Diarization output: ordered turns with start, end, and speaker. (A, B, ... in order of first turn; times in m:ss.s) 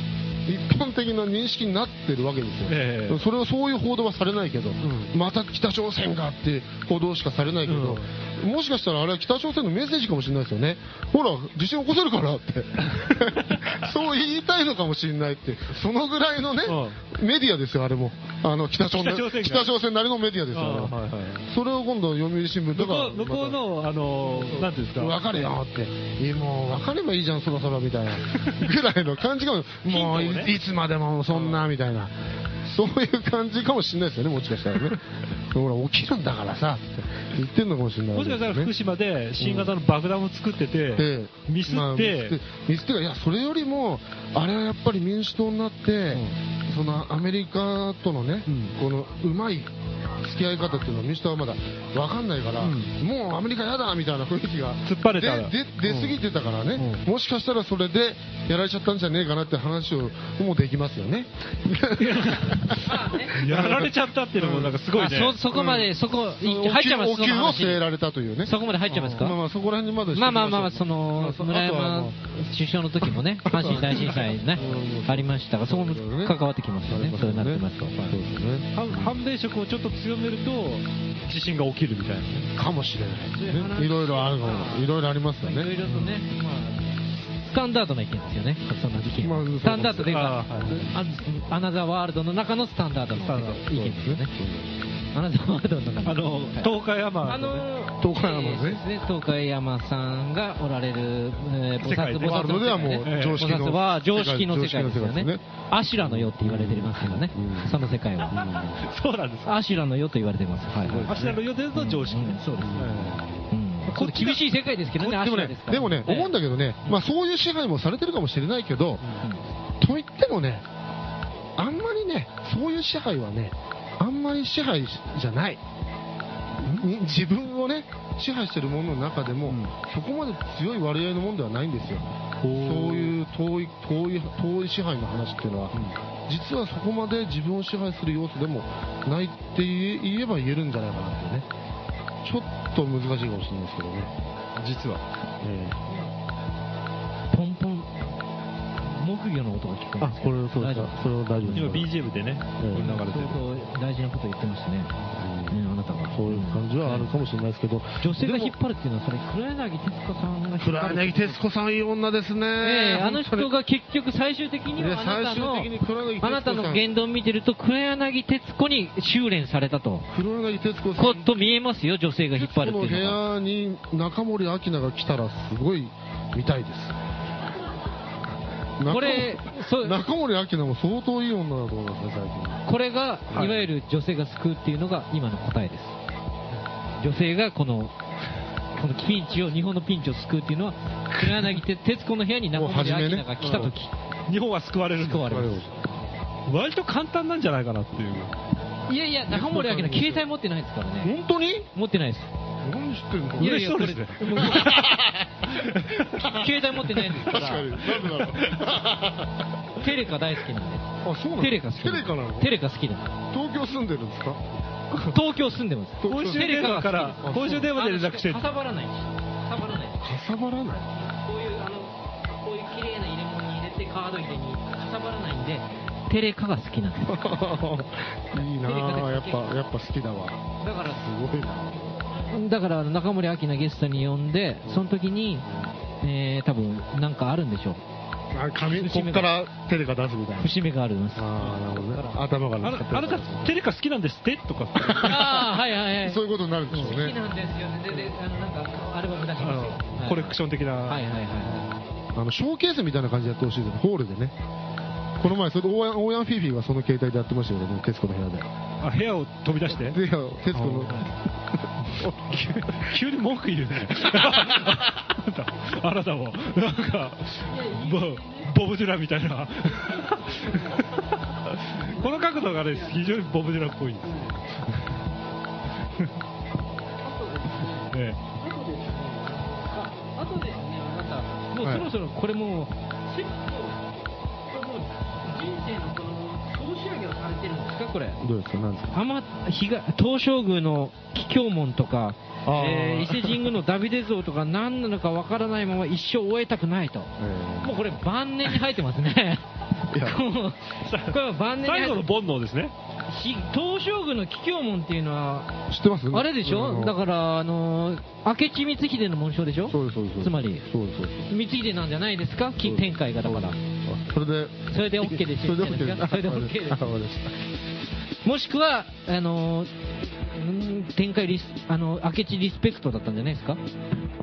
0:00.5-0:23.6 A
0:02.7-0:03.2 B
0:04.8-0:05.1 B
0:07.7-0:08.1 B
0:13.0-0:13.8 B
0:16.7-0:17.0 B
0:18.9-0:19.7 B
0:20.5-0:21.5 B
0:22.7-0:25.2 B
0:24.2-0:38.7 A
0:29.9-0:30.6 B
0:31.3-0:31.7 B
0:38.2-0:42.4 B
0:39.4-0:39.7 A
0:41.0-1:04.8 A
0:48.5-0:48.8 B
0:52.6-0:52.9 B
0:54.8-0:56.2 B
0:56.8-0:57.0 B
1:02.0-1:05.4 B
1:02.8-1:03.4 C
1:04.9-1:07.8 C
1:05.5-1:12.1 A
1:08.4-1:09.4 C
1:08.9-1:09.2 B
1:10.1-1:18.2 C
1:13.4-1:19.1 A
1:18.7-1:22.5 B
1:22.6-1:25.7 A
1:23.3-1:34.3 C
1:25.8-1:26.2 B
1:29.2-1:30.9 A
1:30.1-1:30.7 B
1:33.2-1:33.7 B
1:33.7-1:34.8 A
1:35.1-1:48.5 C
1:36.0-1:37.7 B
1:38.0-1:38.8 A
1:41.8-1:43.4 B
1:42.2-1:45.4 A
1:46.0-1:48.9 A
1:48.4-1:49.6 B
1:49.5-1:51.2 C
1:50.8-1:51.4 A
1:51.1-1:54.4 B
1:51.7-1:52.9 C
1:52.6-1:53.5 A
1:53.5-1:56.4 C
1:55.0-1:59.0 A
1:59.8-2:00.7 A
2:01.6-2:05.6 A
2:06.6-2:21.5 A
2:09.5-2:09.7 B
2:12.4-2:13.2 B
2:15.7-2:16.0 B
2:22.2-2:24.1 A
2:24.6-2:25.0 B
2:25.4-2:25.8 A
2:27.3-2:27.9 C
2:28.8-2:31.0 C
2:30.0-2:31.9 A
2:31.5-2:33.4 B
2:32.6-2:32.9 A
2:32.7-2:34.9 C
2:35.2-2:38.5 A
2:35.5-2:37.1 C
2:38.0-2:41.4 C
2:40.6-2:43.5 A
2:42.6-2:50.1 C
2:44.8-2:46.9 A
2:50.1-2:51.5 A
2:51.0-2:53.2 C
2:52.3-2:57.0 A
2:58.8-3:02.6 A
2:58.9-3:00.0 C
3:02.7-3:06.0 C
3:03.3-3:03.6 A
3:07.0-3:08.0 C
3:08.7-3:13.9 C
3:11.2-3:11.6 B
3:12.5-3:13.7 A
3:13.4-3:13.7 B
3:14.3-3:15.5 B
3:15.0-3:15.8 C
3:15.2-3:15.8 A
3:16.5-3:18.3 B
3:18.9-3:21.1 C
3:19.3-3:20.2 A
3:21.0-3:21.7 A
3:21.7-3:22.3 C
3:22.6-3:23.7 A
3:23.4-3:24.9 C
3:23.4-3:26.3 B
3:24.3-3:29.5 A
3:26.2-3:27.9 C
3:27.9-3:28.7 B
3:29.8-3:33.1 C
3:31.0-3:32.5 A
3:33.3-3:34.5 A
3:35.0-3:40.1 C
3:36.0-3:37.7 A
3:36.1-3:38.4 B
3:40.0-3:40.9 A
3:40.9-3:47.6 C
3:47.0-3:52.0 A
3:48.5-3:49.5 C
3:50.6-3:51.1 C
3:52.2-3:55.5 C
3:56.0-3:57.8 C
3:58.3-4:00.6 A
3:58.6-3:59.3 C
4:00.4-4:02.2 C
4:01.2-4:03.6 A
4:02.6-4:05.5 B
4:04.8-4:05.4 A
4:05.0-4:11.7 C
4:06.0-4:07.2 A
4:09.4-4:11.6 B
4:12.2-4:14.4 A
4:15.2-4:18.5 A
4:18.8-4:20.0 B
4:19.7-4:23.0 A
4:20.5-4:20.9 B
4:20.9-4:21.1 C
4:22.3-4:35.0 B
4:27.5-4:28.5 C
4:29.7-4:31.0 C
4:31.8-4:33.1 C
4:34.0-4:34.4 C
4:37.0-4:43.9 C
4:37.9-4:38.2 B
4:41.6-4:41.9 A
4:44.5-4:48.2 C
4:48.2-4:49.0 A
4:48.9-5:02.1 C
4:52.4-4:53.5 A
4:57.2-4:57.8 A
4:59.9-5:00.2 A
5:00.8-5:02.7 B
5:03.1-5:05.6 C
5:05.7-5:07.0 A
5:06.1-5:10.7 C
5:09.7-5:11.3 A
5:11.3-5:13.6 C
5:12.6-5:17.4 A
5:14.7-5:16.8 C
5:18.2-5:23.6 C